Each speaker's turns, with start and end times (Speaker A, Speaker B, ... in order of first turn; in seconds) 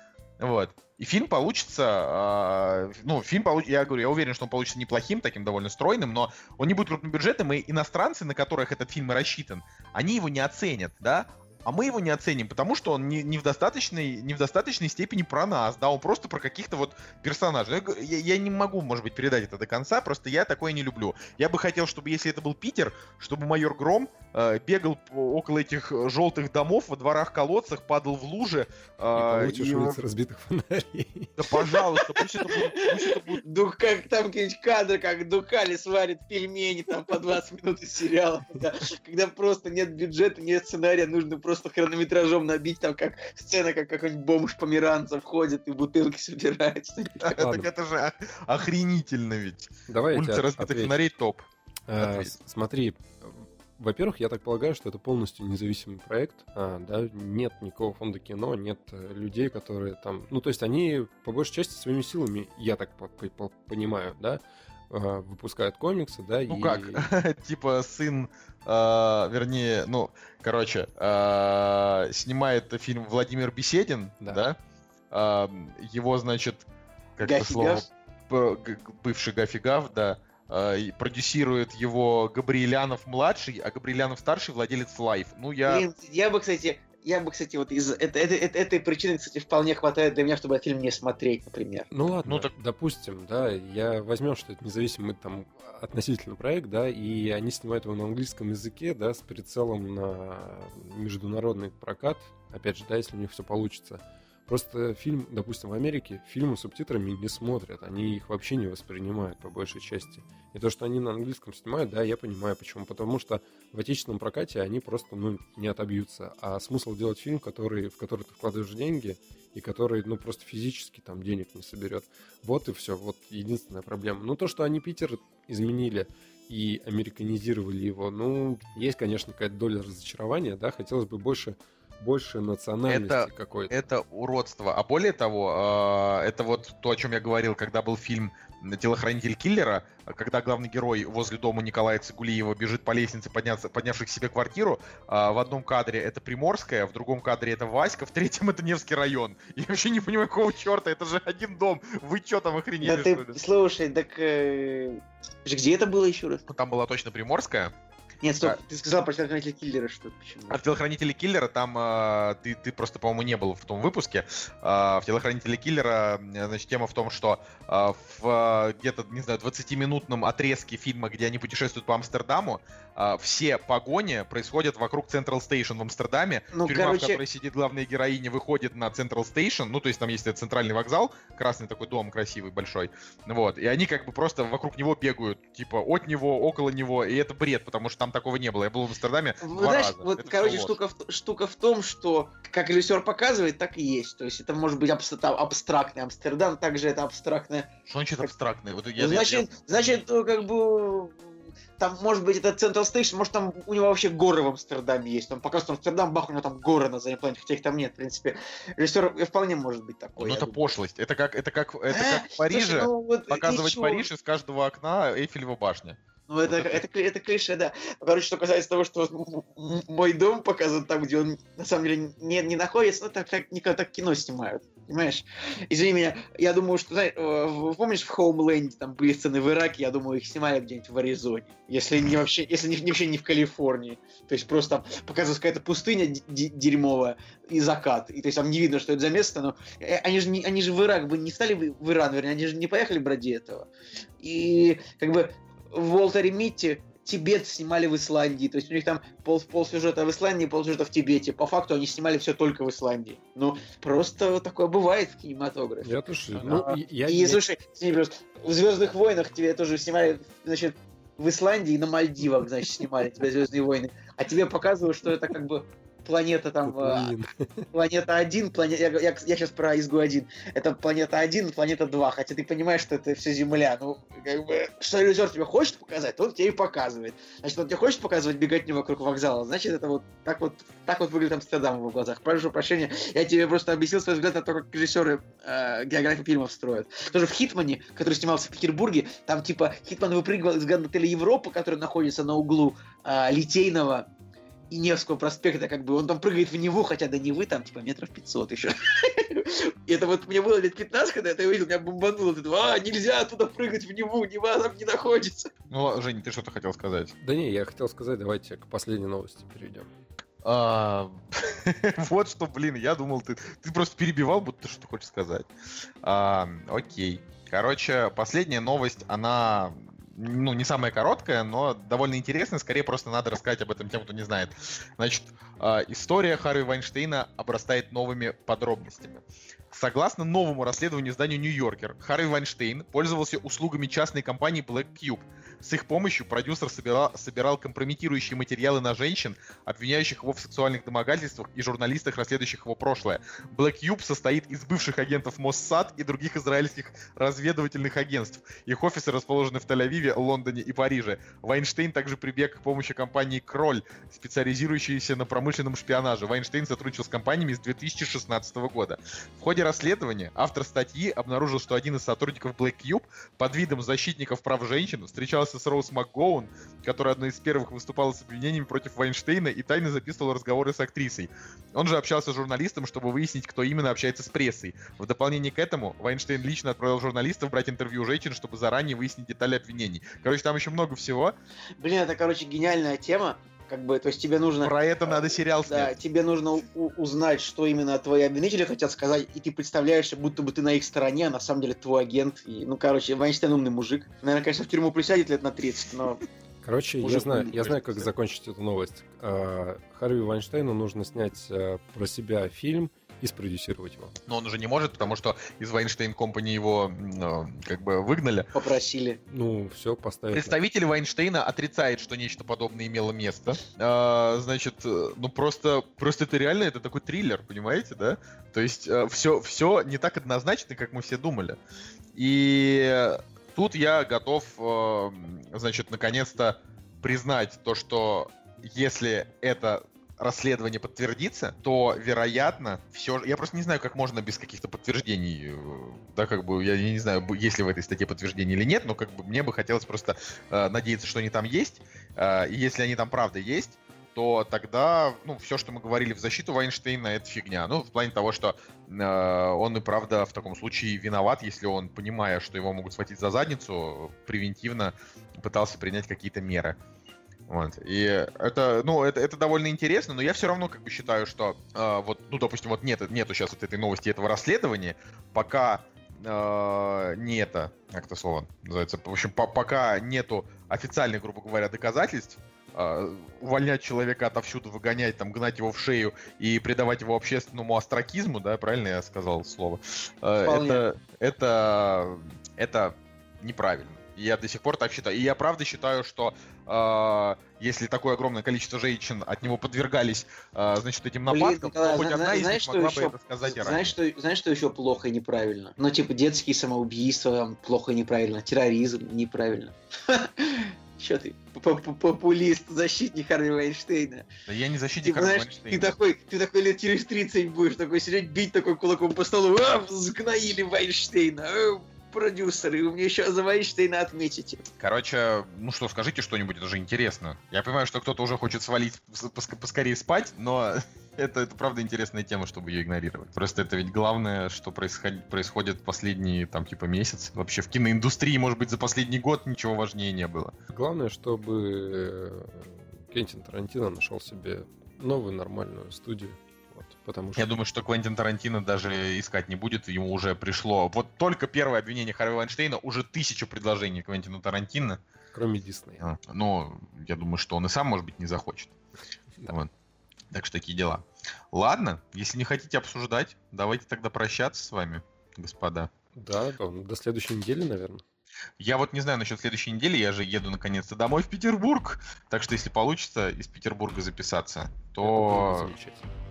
Speaker A: 0.4-30.0, 31.4-33.4, 47.2-51.5, 52.0-52.3, 66.5-74.6, 75.1-85.8, 92.2-92.5, 132.9-153.4, 156.5-157.7, 160.5-190.8, 197.9-200.0, 210.2-216.8, 305.7-307.1, 310.4-315.5, 316.0-381.3, 384.6-385.9, 397.0-398.1, 404.3-408.5, 410.3-421.6, 422.1-456.8, 457.5-493.9, 504.5-505.9, 514.8-530.5, 537.4-545.0, 546.0-548.7, 550.3-555.9, 558.6-565.7
Speaker B: 29.1-31.3, 49.9-51.0, 51.9-67.0, 91.9-133.8, 255.8-257.4, 266.6-267.7, 307.2-309.9, 396.6-404.2, 409.3-410.6, 530.7-537.5, 545.3-546.0, 556.1-558.0, 565.0-566.1
Speaker C: 31.7-47.6, 77.2-77.8, 85.7-91.9, 152.8-156.4, 158.2-160.6, 176.5-177.2, 189.4-197.7, 199.0-201.2, 201.8-210.6, 211.9-214.1, 216.3-243.7, 244.2-267.1, 267.7-294.1, 294.7-305.5, 381.8-396.2, 408.5-409.2, 480.4-480.8, 491.3-504.2, 505.0-514.6